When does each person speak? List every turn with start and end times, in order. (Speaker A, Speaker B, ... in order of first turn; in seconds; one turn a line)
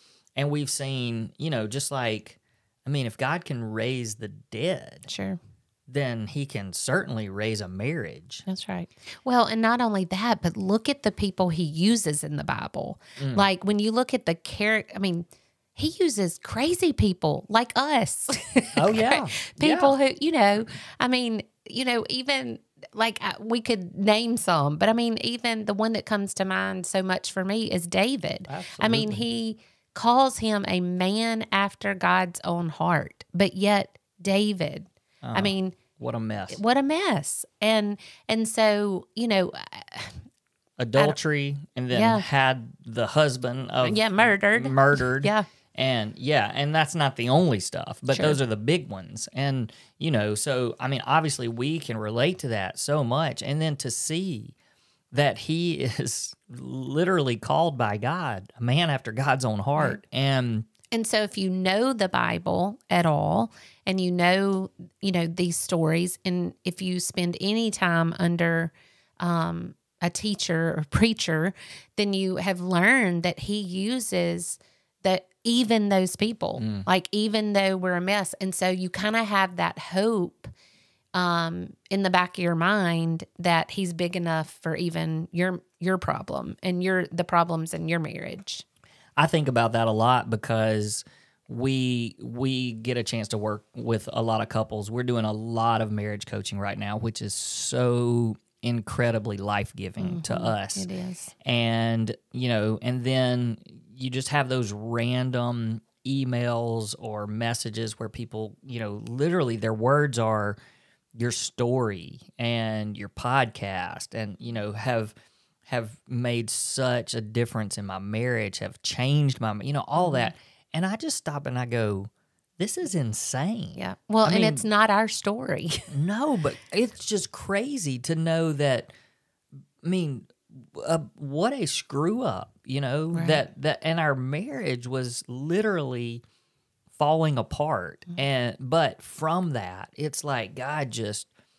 Speaker A: 0.4-5.1
Speaker B: 5.1-5.4
Speaker A: 5.9-8.4
Speaker B: 8.5-35.8
Speaker A: 13.2-13.4
Speaker A: 18.8-20.0
Speaker A: 28.5-29.3
Speaker A: 35.2-36.6
Speaker B: 36.5-40.2
Speaker A: 40.8-54.5
Speaker B: 41.9-42.2
Speaker B: 43.8-45.5
Speaker B: 48.1-48.4
Speaker A: 55.1-60.7
Speaker B: 60.9-80.5
Speaker A: 76.6-76.9
Speaker B: 81.1-88.7
Speaker A: 89.2-100.9
Speaker B: 100.0-101.3
Speaker A: 101.4-110.6
Speaker A: 111.2-115.1
Speaker A: 115.7-124.7
Speaker B: 120.0-120.3
Speaker B: 123.8-125.9
Speaker A: 125.9-128.9
Speaker A: 129.8-136.2
Speaker B: 133.1-133.4
Speaker A: 136.9-141.3